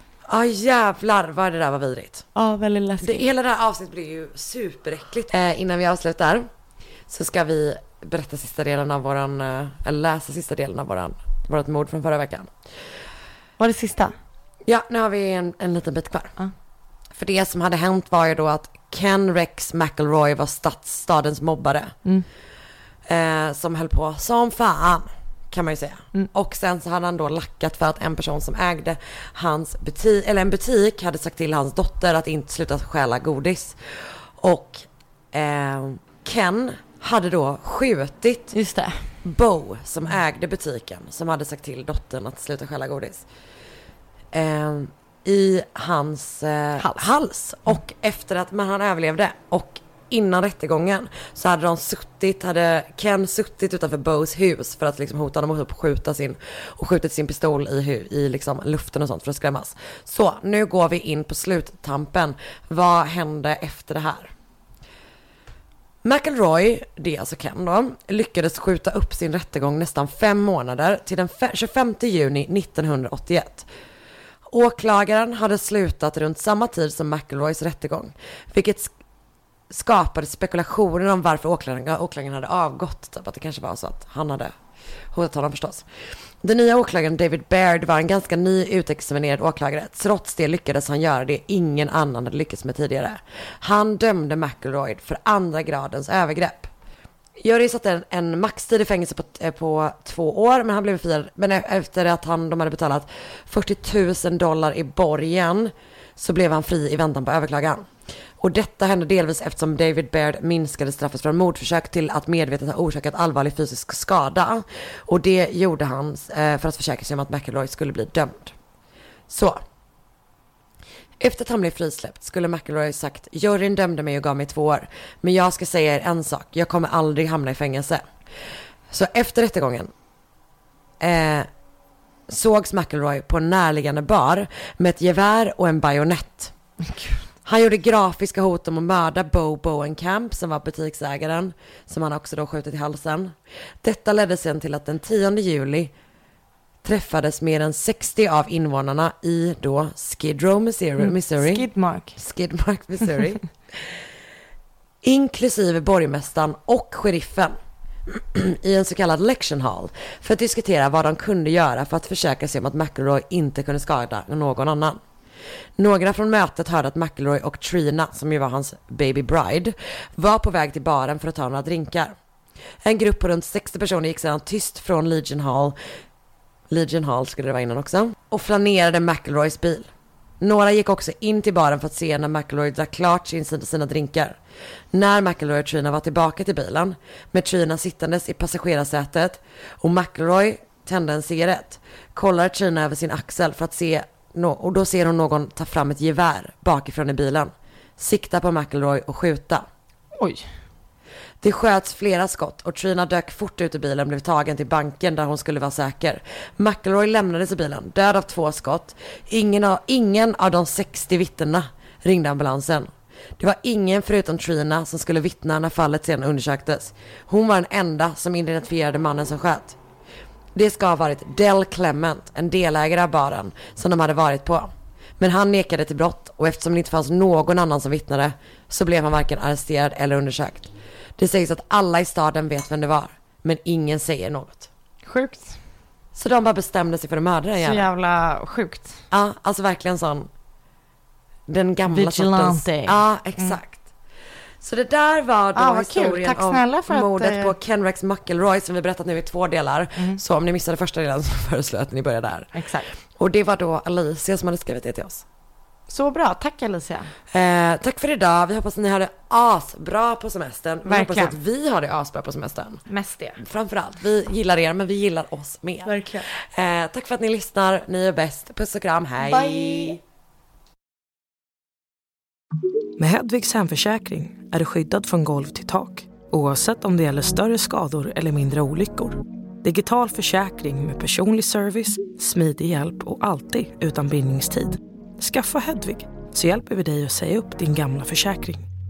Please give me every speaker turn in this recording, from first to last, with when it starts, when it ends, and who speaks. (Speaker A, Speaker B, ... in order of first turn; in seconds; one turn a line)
Speaker A: 0.3-2.2
Speaker B: 2.3-3.2
Speaker A: 3.0-6.5
Speaker A: 7.1-12.5
Speaker B: 13.6-14.1
Speaker A: 14.6-16.4
Speaker A: 17.1-21.9
Speaker A: 23.1-38.5
Speaker B: 38.5-39.1
Speaker A: 39.2-43.2
Speaker A: 44.3-64.3
Speaker B: 46.8-47.0
Speaker A: 66.0-73.7
Speaker A: 74.5-78.9
Speaker A: 79.7-84.5
Speaker A: 85.1-85.8
Speaker A: 86.4-96.7
Speaker A: 97.4-118.5
Speaker A: 119.3-119.6
Speaker A: 121.2-128.1
Speaker A: 128.9-129.9
Speaker A: 131.0-131.5
Speaker A: 132.3-136.5
Speaker B: 136.8-137.2
Speaker A: 137.4-145.9
Speaker A: 146.8-154.1
Speaker B: 151.0-152.2
Speaker A: 155.0-157.5
Speaker A: 158.1-165.0
Speaker A: 165.8-172.1
Speaker A: 172.8-175.7
Speaker A: 176.7-179.9
Speaker A: 180.4-184.4
Speaker A: 184.9-199.7
Speaker B: 200.2-200.5
Speaker A: 201.4-219.8
Speaker A: 220.5-234.7
Speaker B: 235.1-235.6
Speaker A: 236.1-237.8
Speaker B: 237.6-239.0
Speaker A: 239.1-240.3
Speaker A: 241.5-243.9
Speaker B: 241.9-243.6
Speaker A: 244.6-252.6
Speaker B: 245.5-247.5
Speaker B: 252.5-252.9
Speaker A: 253.2-255.2
Speaker B: 255.9-257.1
Speaker A: 257.3-262.8
Speaker B: 260.9-261.4
Speaker B: 262.9-263.4
Speaker A: 263.4-270.0
Speaker B: 265.8-266.3
Speaker B: 269.2-270.0
Speaker C: 273.0-288.7